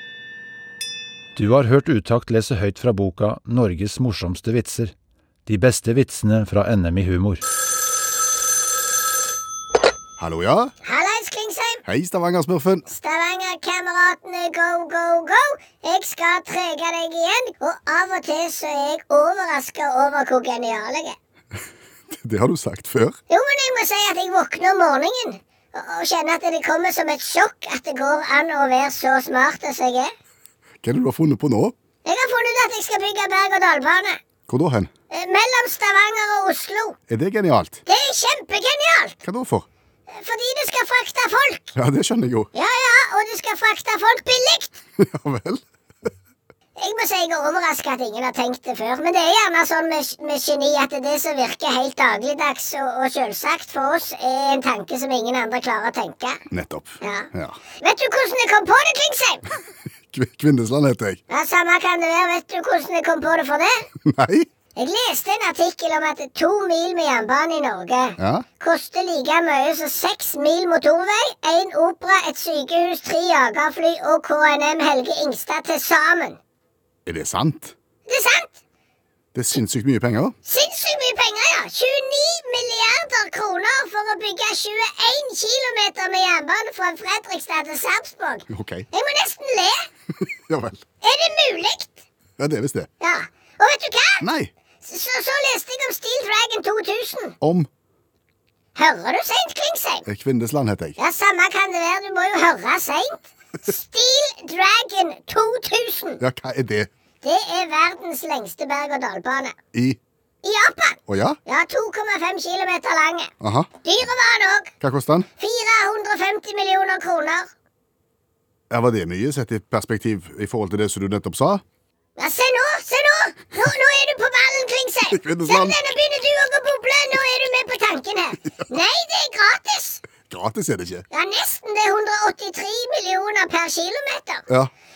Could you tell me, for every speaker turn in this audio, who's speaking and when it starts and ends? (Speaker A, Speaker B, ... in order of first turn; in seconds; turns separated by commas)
Speaker A: 1.4-4.9, Speaker A: 5.5-7.4, Speaker B: 10.2-10.7, Speaker C: 10.8-11.8, Speaker B: 11.8-12.9, Speaker C: 12.9-21.2, Speaker B: 22.1-23.2, Speaker C: 23.3-30.1, Speaker B: 30.8-31.8, Speaker C: 32.0-34.2, Speaker B: 34.5-34.9, Speaker C: 35.1-37.0, Speaker B: 37.1-37.8, Speaker C: 37.9-39.2, Speaker B: 39.2-39.7, Speaker C: 40.1-41.7, Speaker B: 41.8-42.5, Speaker C: 42.5-44.8, Speaker B: 45.0-45.6, Speaker C: 46.8-56.4, Speaker B: 56.5-57.6, Speaker C: 57.0-57.3, Speaker C: 57.8-59.5, Speaker B: 60.1-61.2, Speaker C: 61.3-63.9, Speaker B: 64.0-64.5, Speaker C: 64.8-76.4, Speaker B: 68.2-68.5, Speaker B: 77.1-77.8, Speaker C: 78.1-78.6, Speaker B: 79.3-80.4, Speaker C: 80.5-89.9, Speaker B: 88.5-88.9, Speaker B: 90.2-90.8, Speaker C: 91.0-92.0, Speaker B: 92.4-92.9, Speaker C: 93.0-94.3, Speaker B: 94.2-94.5, Speaker C: 94.8-97.3, Speaker B: 97.4-97.7, Speaker C: 98.8-100.1, Speaker B: 100.1-101.0, Speaker C: 101.0-106.2, Speaker B: 106.2-106.9, Speaker C: 107.2-109.5, Speaker B: 109.7-110.0, Speaker C: 110.4-113.3, Speaker B: 111.1-111.4, Speaker B: 113.4-113.7, Speaker C: 113.8-114.7, Speaker B: 114.8-115.3, Speaker C: 115.4-117.5, Speaker B: 118.7-121.6, Speaker C: 122.2-130.1, Speaker B: 125.1-125.8, Speaker B: 130.2-131.1, Speaker C: 131.1-134.5